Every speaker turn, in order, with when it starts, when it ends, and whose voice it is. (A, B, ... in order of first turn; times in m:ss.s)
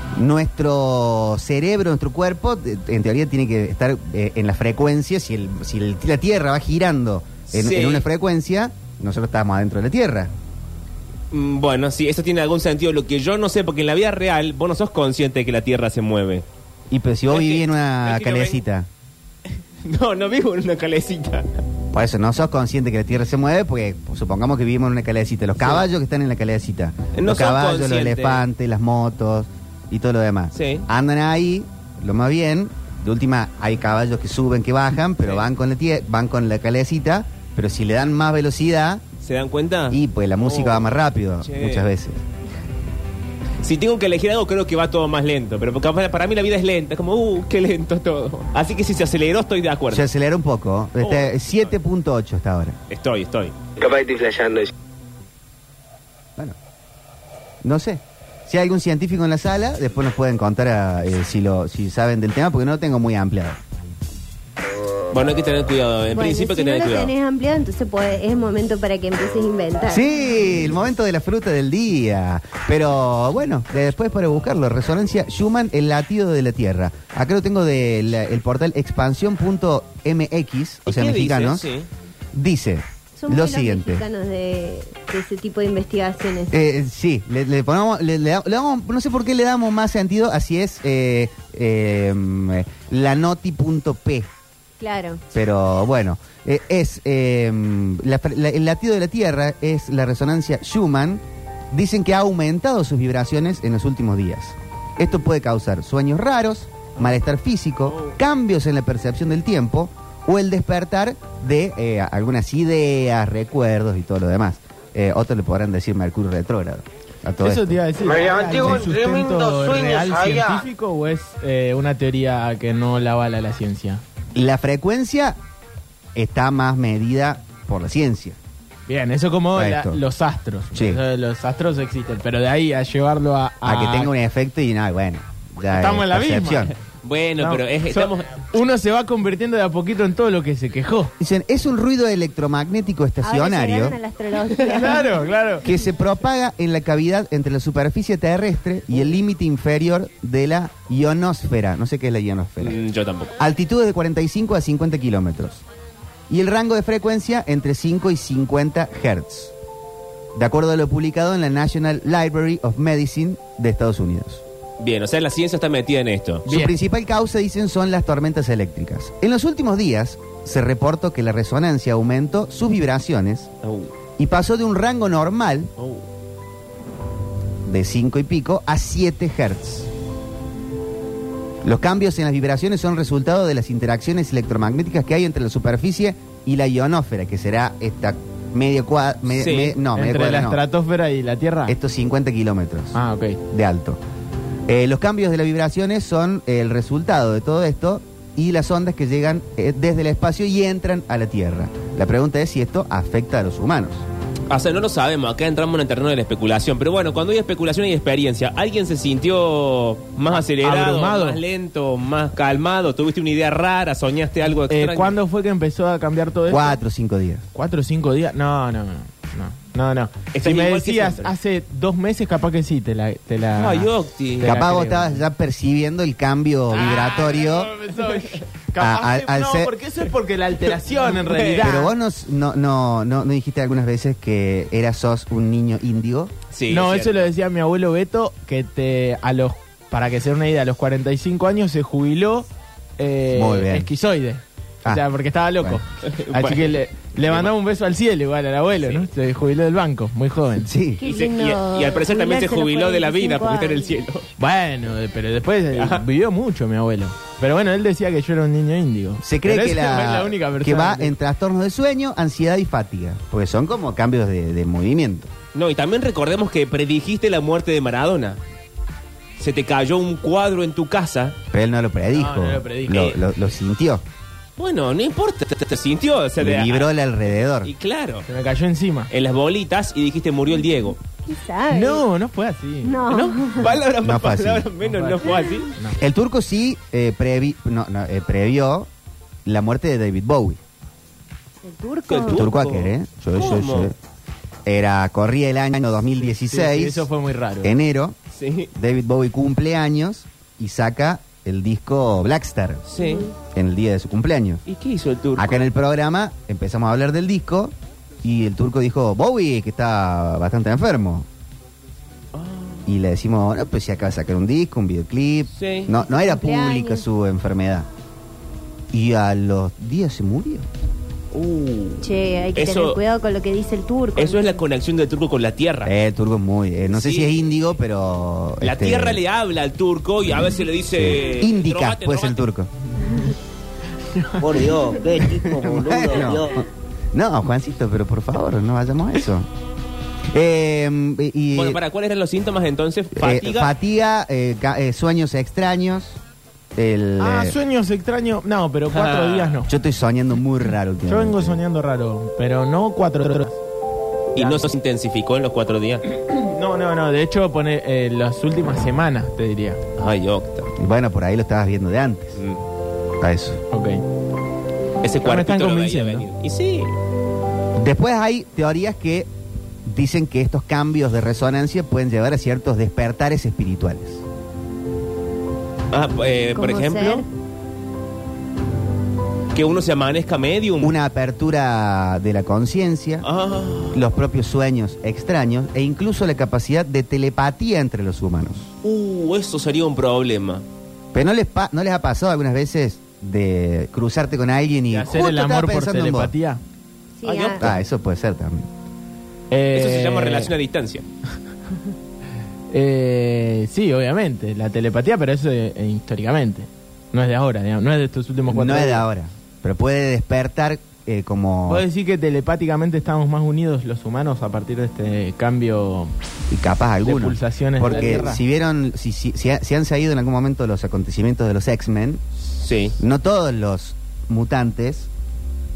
0:00.2-0:10.3 A
0:07.5-0:08.0 B
0:11.3-0:16.4 B
0:16.9-0:18.9 A
0:17.3-0:18.6 B
0:19.8-0:21.6 B
0:21.9-0:39.0 A
0:25.6-0:25.8 B
0:27.1-0:28.4 B
0:30.5-0:30.8 B
0:35.2-0:35.5 B
0:39.2-0:41.9 B
0:39.9-0:42.2 A
0:43.6-0:50.0 B
0:49.9-0:52.8 A
0:51.0-0:51.7 B
0:52.9-0:53.5 B
0:53.8-0:54.7 C
0:57.6-1:03.6 A
1:05.1-1:07.1 B
1:06.1-1:10.0 D
1:09.9-1:21.7 A
1:20.8-1:21.9 B
1:22.3-1:24.0 A
1:23.2-1:26.5 D
1:26.5-1:34.3 A
1:34.8-1:35.2 D
1:35.3-1:57.8 A
1:47.9-1:48.1 B
1:57.4-2:04.0 E
1:58.3-2:00.4 C
2:04.3-2:05.4 A
2:06.1-2:08.4 A
2:08.9-2:14.1 E
2:09.5-2:10.0 A
2:10.7-2:11.0 A
2:13.6-2:16.7 A
2:15.7-2:16.7 E
2:17.0-2:18.3 B
2:17.4-2:21.1 E
2:21.2-2:24.0 A
2:23.2-2:25.8 D
2:24.7-2:25.6 E
2:25.6-2:32.8 A
2:32.6-2:33.3 B
2:33.4-2:35.6 A
2:36.3-2:39.5 A
2:40.3-2:44.4 A
2:44.8-2:46.4 B
2:46.4-2:53.5 A
2:53.6-2:53.9 B
2:54.2-2:55.7 A
2:55.8-2:56.0 B
2:57.6-2:59.9 A
3:01.6-3:10.6 A
3:09.3-3:09.8 B
3:09.9-3:11.7 E
3:11.7-3:13.0 A
3:12.9-3:13.4 E
3:13.5-3:14.0 A
3:14.7-3:24.0 A
3:24.5-3:35.1 B
3:30.3-3:31.4 E
3:34.7-3:36.8 E
3:36.5-3:37.4 A
3:37.5-3:43.9 E
3:40.3-3:41.3 B
3:43.6-3:44.5 B
3:44.4-3:45.2 E
3:44.4-3:47.7 A
3:46.7-3:51.9 E
3:48.8-3:49.7 A
3:51.0-3:51.7 B
3:51.6-3:56.3 A
3:56.5-3:57.3 B
3:56.7-4:02.5 E
4:03.0-4:10.7 E
4:03.3-4:03.9 A
4:06.0-4:07.5 B
4:08.8-4:09.1 B
4:10.6-4:11.0 A
4:11.0-4:14.0 D
4:11.0-4:14.2 B
4:14.4-4:21.1 E
4:15.7-4:16.0 B
4:19.2-4:25.3 A
4:25.5-4:28.4 B
4:29.4-4:31.4 B
4:31.5-4:34.0 A
4:32.1-4:33.2 E
4:34.6-4:36.9 B
4:36.4-4:37.7 A
4:37.6-4:38.2 B
4:38.3-4:39.1 E
4:39.1-4:41.0 B
4:41.2-4:42.0 D
4:41.7-4:43.0 E
4:42.8-4:43.7 D
4:43.1-4:45.7 B
4:44.0-4:44.6 A
4:44.8-4:46.0 E
4:46.0-4:48.9 A
4:49.4-4:50.6 A
4:51.6-4:52.4 D
4:52.1-4:53.9 B
4:52.2-4:54.0 A
4:54.6-4:57.1 A
4:56.2-4:57.8 E
4:57.6-4:58.2 A
4:58.3-4:58.7 B
4:58.7-5:02.8 A
5:02.9-5:03.3 B
5:03.0-5:03.3 D
5:03.5-5:04.6 A
5:04.6-5:05.7 B
5:05.4-5:11.3 A
5:12.3-5:12.8 B
5:12.8-5:17.9 A
5:15.6-5:15.9 B
5:15.9-5:17.0 D
5:18.9-5:20.7 A
5:21.3-5:23.0 B
5:22.0-5:24.6 D
5:24.2-5:25.9 B
5:25.8-5:29.2 A
5:26.9-5:27.3 B
5:28.6-5:32.4 B
5:30.9-5:32.7 A
5:34.1-5:34.4 E
5:34.4-5:36.6 C
5:35.3-5:39.5 A
5:40.3-5:41.8 A
5:41.5-5:43.7 B
5:43.1-5:46.2 A
5:46.7-5:47.6 A
5:47.2-5:49.7 E
5:48.9-5:49.6 B
5:49.7-5:51.6 A
5:51.1-5:53.6 E
5:54.3-5:56.0 B
5:56.3-5:59.8 E
6:00.0-6:00.7 B
6:00.8-6:02.4 A
6:02.4-6:02.6 B
6:03.2-6:03.6 A
6:03.7-6:04.0 E
6:05.0-6:06.9 B
6:05.2-6:06.2 E
6:07.8-6:09.3 A
6:09.8-6:14.2 A
6:15.9-6:17.2 B
6:16.5-6:17.2 D
6:19.5-6:20.9 B
6:20.8-6:23.2 A
6:23.2-6:24.0 B
6:23.9-6:28.7 A
6:28.8-6:30.6 B
6:31.1-6:36.3 A
6:34.9-6:36.6 E
6:37.2-6:37.6 D
6:37.2-6:37.7 B
6:37.6-6:38.7 A
6:39.5-6:40.5 E
6:39.7-6:41.0 B
6:42.7-6:49.0 E
6:48.5-6:51.8 A
6:51.7-6:56.1 E
6:56.5-7:02.2 A
6:57.0-6:58.4 E
6:57.8-6:58.1 B
7:02.6-7:03.0 B
7:03.0-7:05.1 A